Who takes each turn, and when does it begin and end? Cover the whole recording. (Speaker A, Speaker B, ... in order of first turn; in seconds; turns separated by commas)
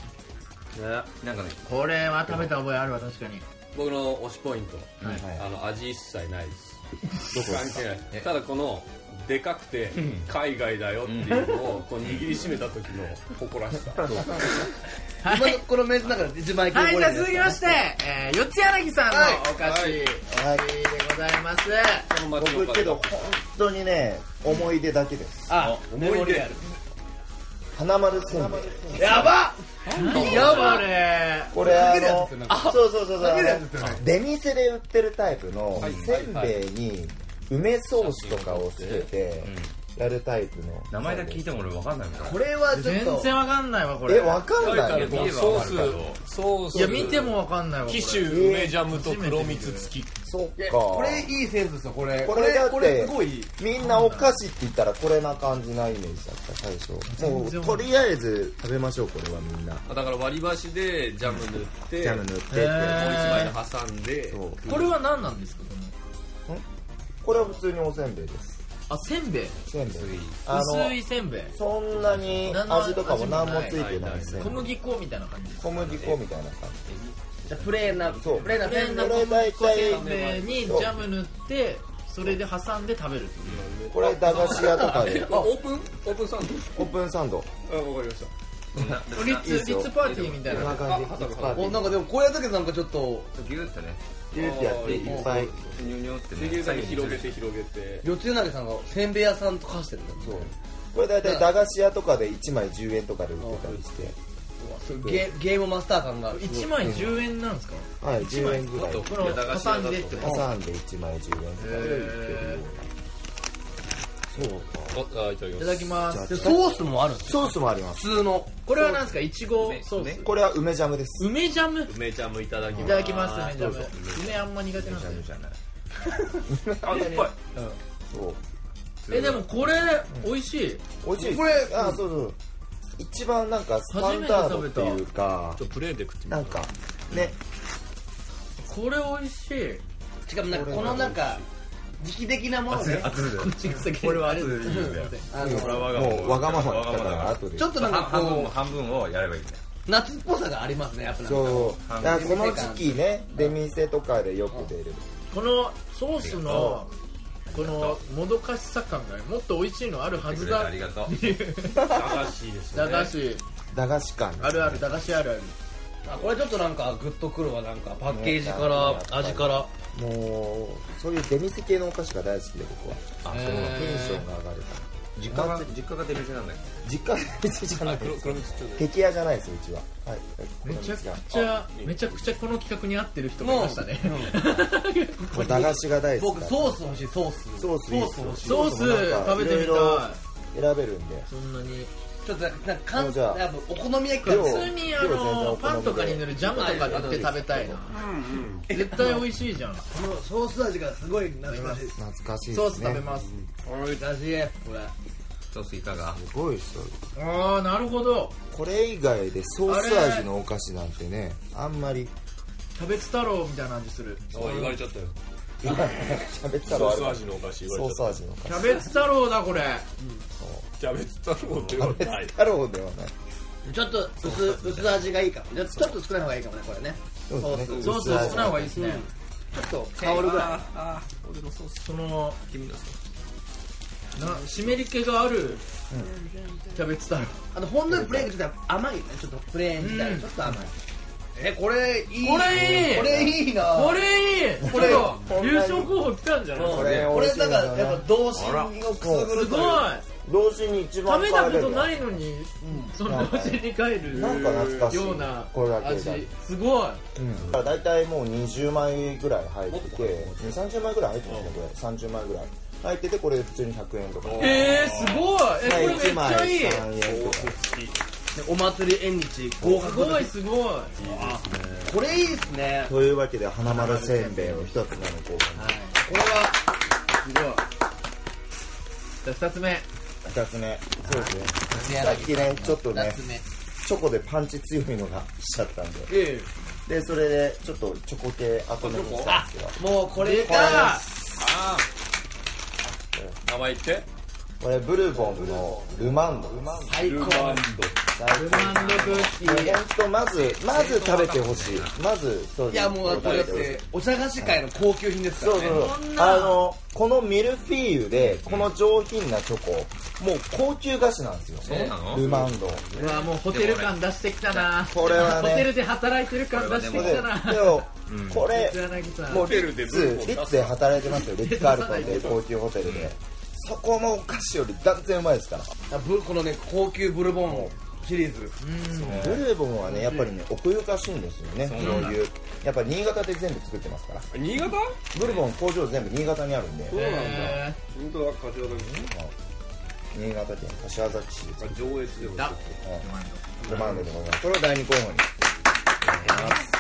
Speaker A: 0.8-1.1, Speaker B: 1.0-1.6, Speaker C: 1.6-3.4, Speaker A: 3.7-6.8, Speaker D: 5.0-5.5, Speaker A: 7.3-14.6, Speaker D: 7.3-7.8, Speaker B: 9.9-10.3, Speaker B: 11.1-11.5, Speaker C: 15.2-15.6, Speaker E: 15.2-17.8, Speaker C: 16.7-22.1, Speaker E: 19.1-19.5, Speaker A: 19.6-20.0, Speaker D: 20.3-20.7, Speaker A: 22.1-23.3, Speaker D: 22.4-25.6, Speaker E: 25.5-26.7, Speaker A: 25.6-26.6, Speaker D: 27.7-29.4, Speaker E: 28.3-30.9, Speaker C: 29.0-29.3, Speaker A: 29.9-30.9, Speaker C: 29.9-31.6, Speaker D: 30.2-30.5, Speaker D: 31.5-41.5, Speaker E: 31.5-34.0, Speaker B: 35.8-36.2, Speaker A: 35.8-36.6, Speaker A: 37.9-39.1, Speaker B: 39.4-39.7, Speaker B: 40.9-42.4, Speaker E: 42.2-43.3, Speaker C: 42.7-44.5, Speaker D: 44.1-45.7, Speaker A: 44.6-50.1, Speaker B: 44.6-46.2, Speaker C: 46.7-49.9, Speaker B: 46.8-47.1, Speaker D: 48.2-48.8, Speaker D: 50.2-51.3, Speaker E: 50.6-53.5, Speaker D: 52.2-59.8, Speaker C: 53.8-54.3, Speaker C: 57.1-57.9, Speaker A: 59.9-62.2, Speaker D: 62.0-63.5, Speaker C: 62.5-63.5, Speaker A: 62.8-65.0, Speaker D: 64.3-64.6, Speaker C: 64.7-65.9, Speaker D: 67.2-68.6, Speaker C: 68.9-69.6, Speaker D: 69.7-71.0, Speaker B: 69.8-70.4, Speaker C: 70.5-71.5, Speaker D: 71.5-74.6, Speaker B: 72.0-72.5, Speaker C: 72.5-73.8, Speaker A: 73.7-74.7, Speaker C: 74.3-76.0, Speaker D: 75.6-76.8, Speaker B: 75.8-76.2, Speaker B: 76.9-78.3, Speaker E: 77.5-79.3, Speaker D: 78.2-81.0, Speaker C: 78.6-83.7, Speaker A: 79.6-80.8, Speaker B: 83.4-83.7, Speaker A: 83.5-86.9, Speaker D: 83.9-85.5, Speaker E: 84.5-85.5, Speaker D: 86.7-87.5, Speaker A: 87.7-88.3, Speaker B: 88.7-90.9, Speaker D: 88.8-92.0, Speaker C: 89.1-90.9, Speaker A: 90.0-91.8, Speaker E: 91.5-93.3, Speaker B: 93.3-94.0, Speaker D: 94.3-95.6, Speaker A: 94.3-98.1, Speaker B: 94.7-97.4, Speaker E: 98.0-100.5, Speaker D: 100.2-104.2, Speaker E: 101.2-101.5, Speaker E: 103.4-103.8, Speaker C: 104.6-105.1, Speaker E: 104.9-107.0, Speaker D: 105.0-105.3, Speaker C: 106.3-110.5, Speaker D: 106.8-107.2, Speaker D: 108.0-109.4, Speaker A: 108.8-110.4, Speaker D: 110.2-112.9, Speaker C: 111.6-112.6, Speaker D: 114.3-115.0, Speaker A: 114.9-116.0, Speaker C: 115.6-116.6, Speaker D: 116.0-118.1, Speaker E: 116.3-119.1, Speaker C: 118.7-120.3, Speaker B: 119.5-120.2, Speaker D: 120.2-121.3, Speaker C: 121.2-122.0, Speaker A: 121.9-124.4, Speaker D: 122.7-123.9, Speaker C: 122.8-125.3, Speaker D: 124.8-125.5, Speaker D: 126.5-127.3, Speaker A: 126.8-127.3, Speaker D: 128.1-128.4, Speaker A: 129.0-129.7, Speaker C: 129.1-130.8, Speaker D: 131.0-132.4, Speaker E: 131.2-132.0, Speaker D: 133.0-135.6, Speaker C: 133.9-135.0, Speaker A: 135.6-136.7, Speaker D: 136.3-137.4, Speaker C: 138.6-139.8, Speaker E: 140.3-141.4, Speaker D: 140.5-141.4, Speaker E: 142.0-143.2, Speaker B: 142.7-149.6, Speaker C: 143.0-145.4, Speaker E: 144.6-146.1, Speaker D: 145.4-147.8, Speaker E: 147.6-148.6, Speaker E: 149.9-153.5, Speaker D: 151.2-155.1, Speaker B: 151.8-152.6, Speaker C: 155.3-156.9, Speaker B: 156.2-156.8, Speaker D: 156.5-156.8, Speaker B: 157.5-158.0, Speaker C: 157.5-162.1, Speaker B: 160.2-161.3, Speaker A: 161.8-163.2, Speaker D: 161.9-162.2, Speaker C: 162.7-163.4, Speaker D: 163.7-164.9, Speaker C: 164.4-165.6, Speaker E: 166.1-169.7, Speaker D: 168.1-175.7, Speaker B: 173.2-174.0, Speaker C: 173.3-174.2, Speaker B: 175.2-176.8, Speaker D: 176.8-181.2, Speaker A: 177.8-178.9, Speaker C: 180.6-185.8, Speaker A: 181.3-182.2, Speaker E: 183.4-184.4, Speaker D: 185.3-186.8, Speaker E: 186.2-188.8, Speaker D: 187.6-191.3, Speaker C: 188.4-190.2, Speaker C: 191.3-191.9, Speaker E: 192.2-194.7, Speaker D: 192.9-193.4, Speaker C: 194.2-198.1, Speaker D: 194.2-197.1, Speaker E: 196.4-197.4, Speaker A: 197.9-198.7, Speaker E: 198.7-199.3, Speaker C: 198.7-199.8, Speaker E: 199.9-202.0, Speaker C: 201.5-201.9, Speaker D: 202.0-203.1, Speaker C: 202.5-203.3, Speaker E: 203.6-204.9, Speaker B: 205.5-206.2, Speaker D: 206.1-207.0, Speaker C: 207.2-208.3, Speaker D: 208.5-212.1, Speaker C: 209.7-210.3, Speaker C: 212.8-214.3, Speaker A: 214.3-215.1, Speaker D: 215.6-218.8, Speaker A: 216.7-218.2, Speaker C: 218.5-219.9, Speaker D: 220.4-220.7, Speaker A: 220.8-222.4, Speaker D: 221.6-223.1, Speaker E: 223.7-230.6, Speaker B: 224.2-225.1, Speaker D: 227.3-228.8, Speaker C: 227.8-229.1, Speaker A: 230.0-231.9, Speaker C: 231.8-232.4, Speaker B: 232.5-233.0, Speaker C: 234.2-235.6, Speaker C: 236.7-237.4, Speaker E: 237.5-240.7, Speaker D: 237.9-238.3, Speaker C: 239.8-240.3, Speaker E: 241.4-244.1, Speaker C: 242.2-246.9, Speaker D: 242.6-243.4, Speaker E: 244.6-245.2, Speaker D: 244.7-245.9, Speaker A: 244.9-245.7, Speaker D: 246.6-248.1, Speaker E: 246.6-249.9, Speaker B: 246.7-247.3, Speaker B: 248.3-248.8, Speaker D: 249.0-249.7, Speaker C: 249.3-250.1, Speaker D: 250.2-252.2, Speaker C: 251.1-257.0, Speaker E: 252.6-252.9, Speaker D: 253.0-256.3, Speaker A: 254.1-255.0, Speaker D: 257.2-264.9, Speaker A: 257.4-257.7, Speaker A: 259.7-260.6, Speaker A: 261.3-261.5, Speaker A: 264.2-266.2, Speaker C: 264.4-266.9, Speaker D: 265.6-267.6, Speaker A: 266.9-268.0, Speaker E: 268.3-270.3, Speaker C: 269.6-270.9, Speaker A: 271.0-272.0, Speaker E: 271.0-272.9, Speaker D: 272.9-275.7, Speaker C: 273.7-274.7, Speaker C: 275.6-276.0, Speaker E: 276.0-276.6, Speaker E: 277.2-277.6, Speaker C: 279.2-279.9, Speaker D: 280.2-283.2, Speaker C: 281.2-283.4, Speaker E: 281.7-282.3, Speaker D: 283.8-286.1, Speaker E: 286.1-286.5, Speaker D: 286.9-289.8, Speaker A: 288.8-289.3, Speaker E: 289.2-291.1, Speaker C: 290.2-291.1, Speaker D: 290.4-291.0, Speaker A: 291.4-291.9, Speaker D: 292.9-293.4, Speaker A: 293.4-294.1, Speaker D: 294.6-296.9, Speaker E: 295.1-297.7, Speaker A: 296.9-298.0, Speaker D: 298.1-303.8, Speaker C: 298.3-299.8, Speaker B: 298.9-299.3, Speaker B: 300.3-302.0, Speaker E: 302.7-305.9, Speaker B: 303.1-303.7, Speaker D: 305.4-312.9, Speaker C: 305.5-306.6, Speaker B: 308.2-308.7, Speaker B: 311.6-315.3, Speaker A: 311.7-313.1, Speaker C: 312.9-317.9, Speaker D: 314.8-315.7, Speaker B: 316.5-317.3, Speaker D: 316.9-325.7, Speaker B: 318.1-318.5, Speaker C: 318.4-319.5, Speaker A: 319.3-320.9, Speaker C: 321.4-322.4, Speaker A: 322.0-322.4, Speaker B: 322.8-323.1, Speaker E: 325.9-328.6, Speaker C: 328.6-330.3, Speaker B: 328.9-329.5, Speaker D: 329.1-334.3, Speaker B: 331.6-332.2, Speaker C: 331.8-332.2, Speaker A: 334.3-335.0, Speaker D: 335.1-337.0, Speaker B: 335.2-335.4, Speaker A: 336.9-339.1, Speaker C: 336.9-337.8, Speaker D: 338.7-339.3, Speaker D: 340.1-342.2, Speaker A: 341.6-342.8, Speaker C: 342.3-343.4, Speaker A: 343.6-344.1, Speaker D: 343.6-345.3, Speaker E: 346.2-346.6, Speaker C: 346.2-346.6